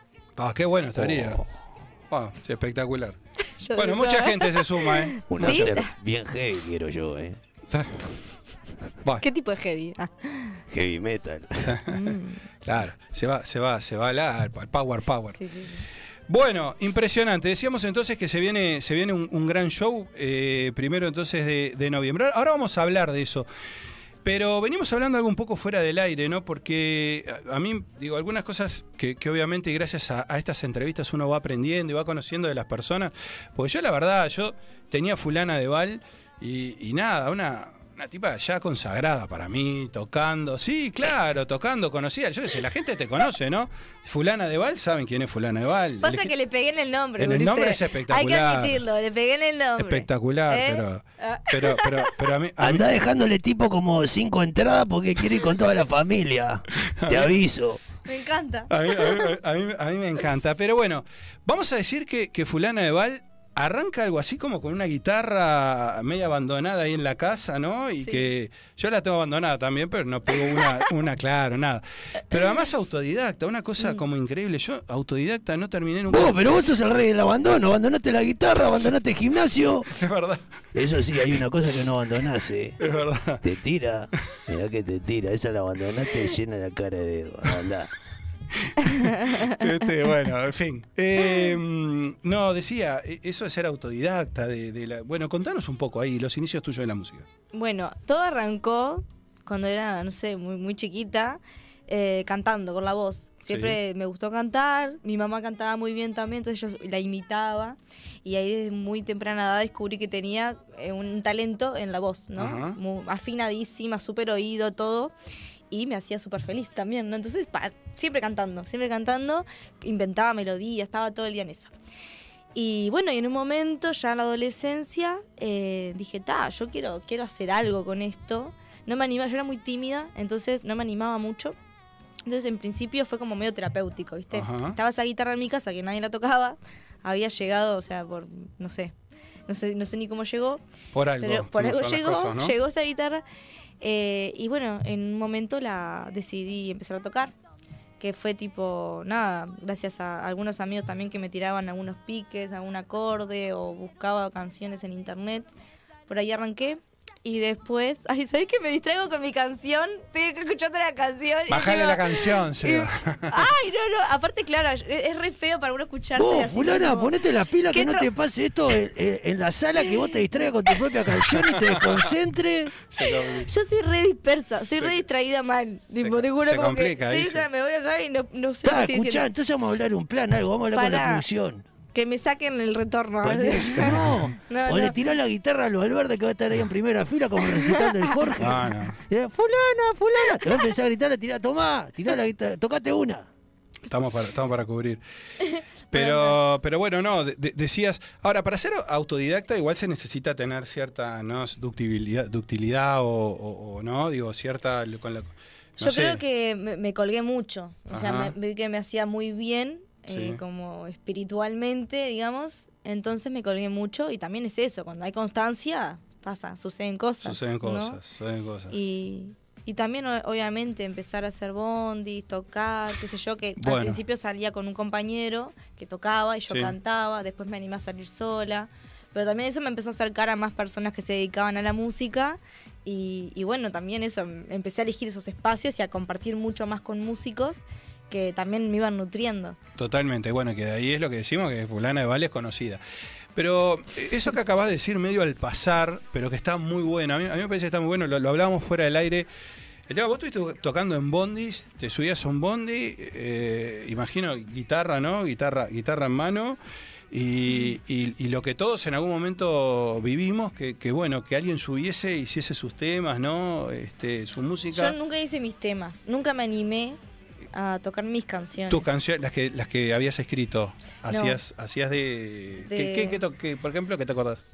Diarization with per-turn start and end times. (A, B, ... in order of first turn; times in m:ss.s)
0:00.4-0:01.4 A
0:01.0-0:01.5 B
0:02.1-0:03.2 A
0:03.6-0:05.9 C
0:03.7-0:05.8 A
0:05.3-0:07.4 B
0:07.7-0:08.1 A
0:09.2-0:10.6 C
0:10.7-0:11.8 B
0:11.6-0:15.4 A
0:11.8-0:12.7 C
0:15.3-0:15.8 C
0:16.3-0:23.5 A
0:24.2-0:46.3 A
0:46.0-0:52.2 C
0:47.2-0:48.8 A
0:49.8-0:52.9 A
0:52.6-0:57.8 B
0:57.0-0:57.3 A
0:58.0-0:59.4 C
0:58.7-1:16.7 A
1:16.1-1:19.9 B
1:19.9-1:20.6 A
1:20.7-1:22.8 B
1:22.8-1:23.4 A
1:23.4-1:28.0 B
1:28.5-1:37.2 A
1:28.8-1:29.6 C
1:37.5-1:55.1 C
1:43.5-1:43.8 A
1:52.4-1:52.8 A
1:55.7-2:01.7 C
2:02.5-2:11.6 C
2:12.2-2:18.9 C
2:14.3-2:14.8 A
2:19.5-2:20.6 C
2:20.9-2:22.5 A
2:21.2-2:23.2 C
2:23.8-2:27.3 C
2:28.0-2:35.5 C
2:36.1-2:47.1 C
2:41.5-2:43.5 A
2:46.2-2:52.8 B
2:47.7-2:48.1 C
2:51.3-2:52.0 A
2:52.8-2:53.5 A
2:53.1-2:59.2 C
2:56.0-2:57.4 A
2:58.6-3:01.6 B
3:00.7-3:01.2 C
3:01.9-3:05.0 C
3:03.2-3:13.3 B
3:08.4-3:09.0 A
3:13.9-3:15.0 A
3:15.4-3:16.4 C
3:15.9-3:26.2 A
3:25.8-3:38.0 C
3:27.9-3:28.3 A
3:30.1-3:30.4 A
3:37.2-3:38.7 A
3:38.7-3:59.6 C
3:43.6-3:44.0 A
3:46.5-3:46.7 A
3:59.8-4:02.8 A
4:03.3-4:09.3 A
4:09.9-4:16.6 A
4:17.1-4:25.0 A
4:24.7-4:27.0 C
4:27.5-4:28.8 C
4:28.7-4:34.4 A
4:31.1-4:31.4 C
4:32.7-4:33.2 C